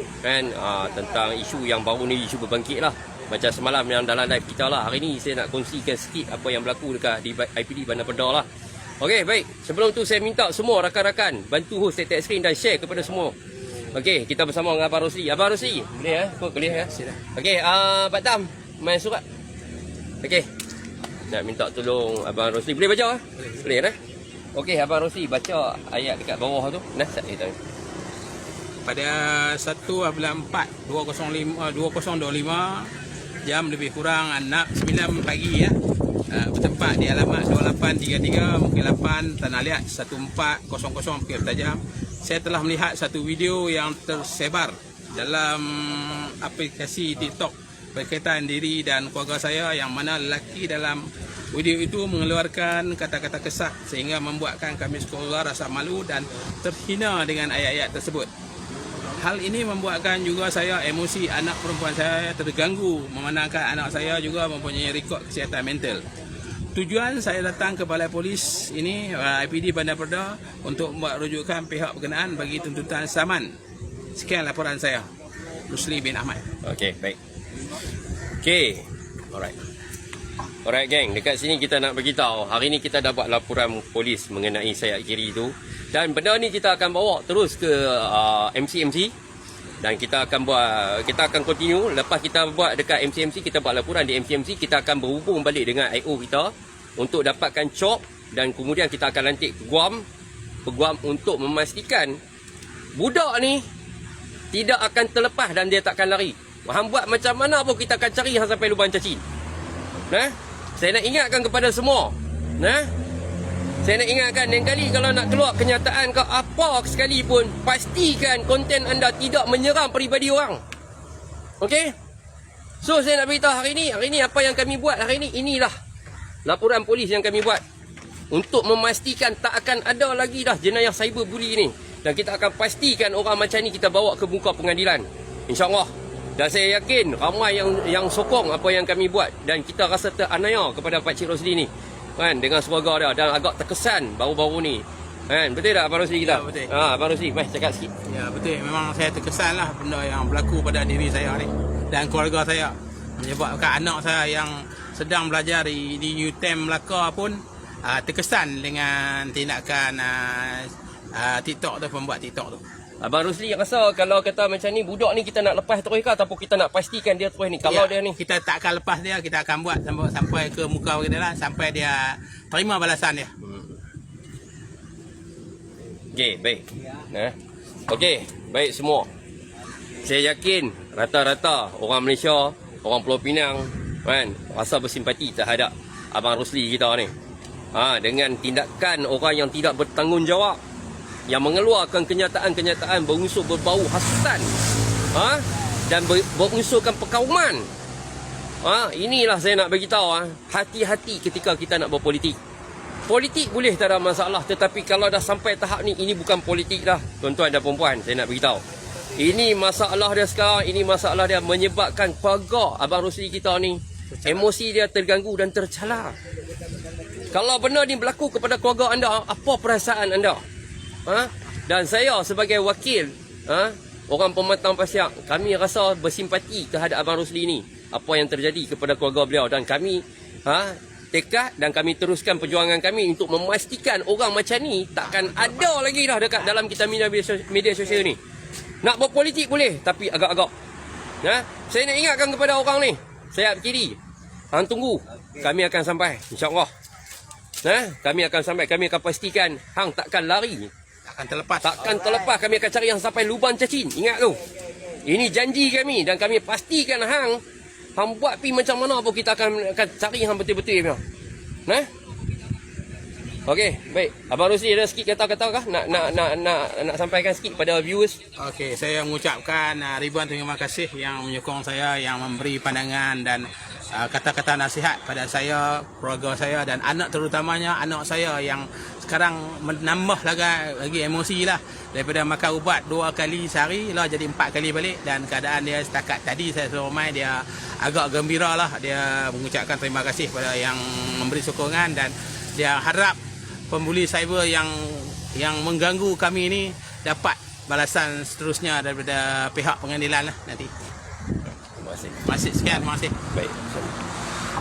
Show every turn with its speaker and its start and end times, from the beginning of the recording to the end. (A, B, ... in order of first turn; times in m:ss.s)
0:00.2-0:08.5 A
0:09.0-0:13.4 A
0:13.9-0:19.2 A
0:16.9-0:17.2 B
0:20.2-0:20.5 A
0:21.3-0:24.0 A
0:24.6-0:27.6 A
0:28.8-0:32.9 B
0:33.4-0:35.8 B
0:36.3-0:58.3 B
0:59.2-1:06.1 B
1:06.7-1:13.5 B
1:14.2-1:15.1 B
1:15.7-1:16.5 B
1:16.6-1:17.2 A
1:18.4-1:19.6 A
1:20.6-1:29.1 A
1:29.8-1:40.0 A
1:40.7-1:42.2 A
1:43.0-1:43.6 A
1:44.5-1:49.2 A
1:50.1-1:52.9 A
1:53.8-2:00.6 A
2:01.6-2:02.0 A
2:02.8-2:05.7 A
2:06.4-2:07.6 A
2:08.3-2:27.9 A
2:26.2-2:26.7 B
2:28.0-2:42.6 B
2:43.0-2:48.2 A
2:47.7-2:53.4 B
2:53.4-2:53.8 A
2:56.1-2:57.4 A
2:57.9-2:59.1 A
3:00.0-3:07.1 A
3:07.7-3:10.6 A
3:11.3-3:14.5 A
3:15.1-3:17.7 A
3:18.6-3:22.4 A
3:23.1-3:28.6 A
3:29.2-3:36.2 A
3:34.2-3:34.5 B
3:37.3-3:40.4 A
3:41.1-3:58.2 A
3:58.8-4:00.5 A
4:01.2-4:04.0 A
4:04.5-4:06.7 A
4:07.6-4:10.7 A
4:11.1-4:11.8 B
4:11.6-4:14.4 A
4:15.0-4:17.4 A
4:18.0-4:21.0 A
4:23.5-4:28.2 A
4:28.4-4:53.2 B
4:53.7-5:00.7 B
5:01.8-5:02.2 A
5:02.2-5:03.2 B
5:03.3-5:03.9 A